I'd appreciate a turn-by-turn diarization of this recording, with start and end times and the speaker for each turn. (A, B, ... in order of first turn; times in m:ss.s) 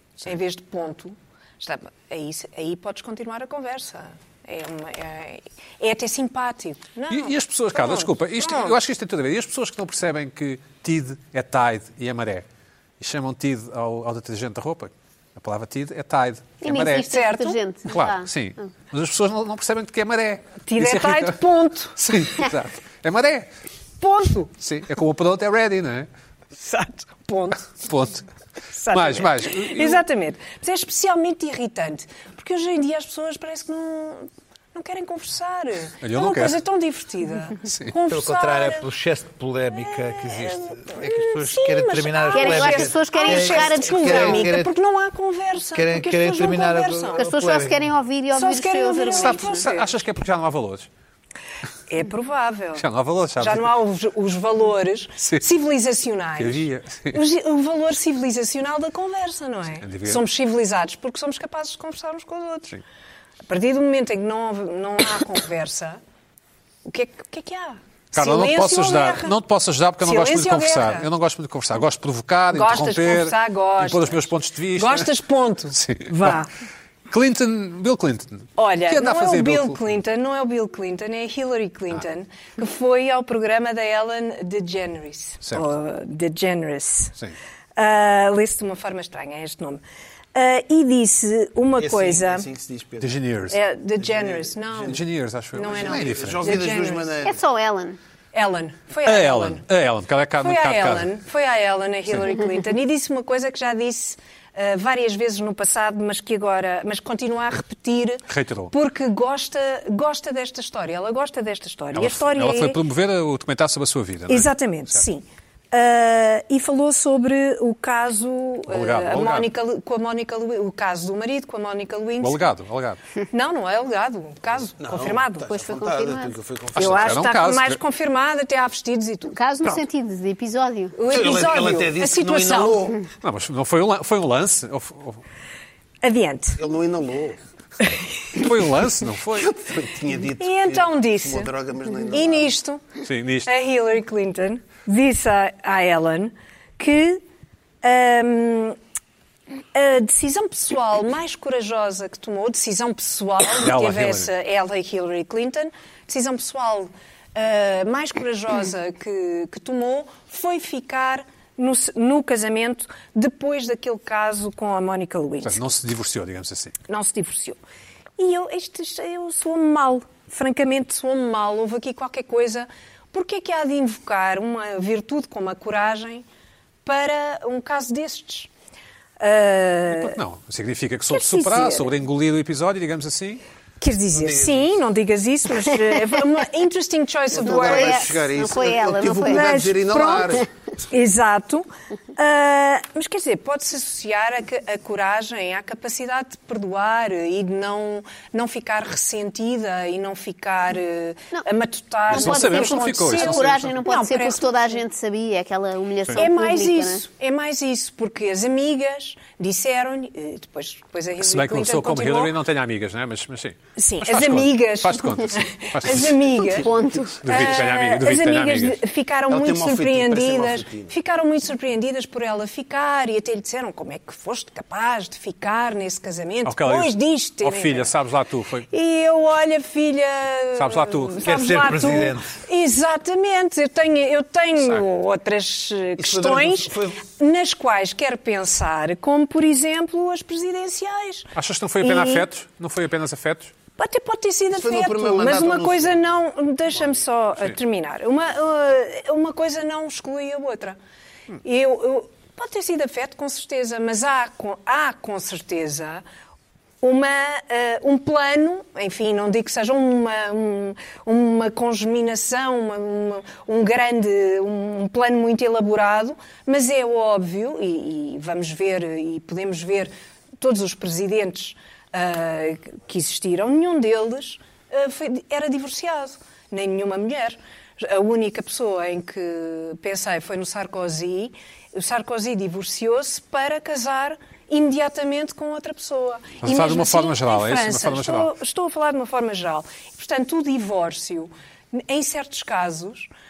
0:00.2-0:08.8 A
0:07.1-0:12.4 B
0:13.0-0:17.1 B
0:16.6-0:18.3 C
0:17.0-0:17.6 A
0:17.9-0:21.4 B
0:20.7-0:22.0 A
0:22.0-0:23.5 B
0:24.0-0:24.5 A
0:24.6-0:26.1 B
0:26.6-0:27.8 A
0:27.8-0:28.2 B
0:28.7-0:38.9 A
0:28.9-0:30.0 B
0:36.0-0:36.6 B
0:37.6-0:37.9 B
0:38.1-0:44.7 D
0:40.0-0:47.3 A
0:42.3-0:44.5 C
0:45.7-0:47.9 D
0:47.2-0:49.6 C
0:48.3-0:49.9 A
0:49.1-0:50.9 B
0:51.9-0:52.8 A
0:52.8-0:53.7 B
0:53.4-1:02.7 A
0:56.4-0:57.2 B
0:59.8-1:00.2 B
1:03.5-1:06.0 A
1:06.8-1:09.4 A
1:08.1-1:15.1 B
1:10.0-1:11.1 A
1:12.5-1:16.5 A
1:15.7-1:16.4 B
1:17.1-1:19.8 B
1:18.6-1:27.1 A
1:25.4-1:25.7 B
1:27.8-1:29.8 A
1:30.3-1:32.4 A
1:31.8-1:33.1 E
1:33.0-1:33.6 B
1:33.5-1:35.0 A
1:34.0-1:35.0 E
1:34.8-1:36.6 B
1:35.5-1:37.1 A
1:35.6-1:37.4 E
1:37.2-1:38.0 C
1:38.3-1:39.6 A
1:39.0-1:41.1 B
1:40.4-1:52.8 A
1:48.3-1:48.7 B
1:51.9-1:55.0 B
1:54.3-2:02.4 A
1:58.7-1:59.5 B
2:02.2-2:03.0 B
2:03.3-2:05.5 A
2:04.8-2:07.2 E
2:05.5-2:06.3 C
2:06.8-2:07.8 B
2:06.8-2:09.4 A
2:09.3-2:11.0 C
2:11.0-2:12.9 A
2:11.1-2:13.0 E
2:13.2-2:15.2 B
2:16.0-2:16.6 A
2:16.6-2:17.4 E
2:18.3-2:19.5 B
2:19.4-2:22.5 E
2:20.4-2:21.5 A
2:22.1-2:22.8 A
2:23.0-2:23.5 B
2:23.4-2:27.2 A
2:27.8-2:28.8 A
2:29.7-2:45.6 A
2:33.6-2:34.3 B
2:45.4-2:46.7 B
2:46.9-2:47.6 A
2:48.2-2:56.2 A
2:56.8-2:58.5 A
2:59.2-3:00.2 A
2:59.9-3:03.4 B
3:01.1-3:01.9 A
3:03.8-3:08.2 A
3:04.1-3:04.7 E
3:07.3-3:10.5 E
3:07.4-3:09.4 C
3:09.3-3:24.8 A
3:22.1-3:27.0 C
3:22.1-3:23.8 B
3:26.2-3:32.3 A
3:31.2-3:36.2 B
3:33.8-3:36.7 A
3:36.5-3:37.3 C
3:37.2-3:38.8 B
3:37.2-3:47.9 A
3:39.3-3:40.9 E
3:46.4-3:48.7 B
3:48.7-4:02.2 A
3:50.6-3:51.2 B
3:51.2-3:52.4 D
3:56.0-3:57.0 E
4:01.3-4:03.5 B
4:03.8-4:10.8 A
4:04.5-4:06.2 E
4:11.4-4:16.0 A
4:16.8-4:53.1 A
4:46.4-4:48.3 B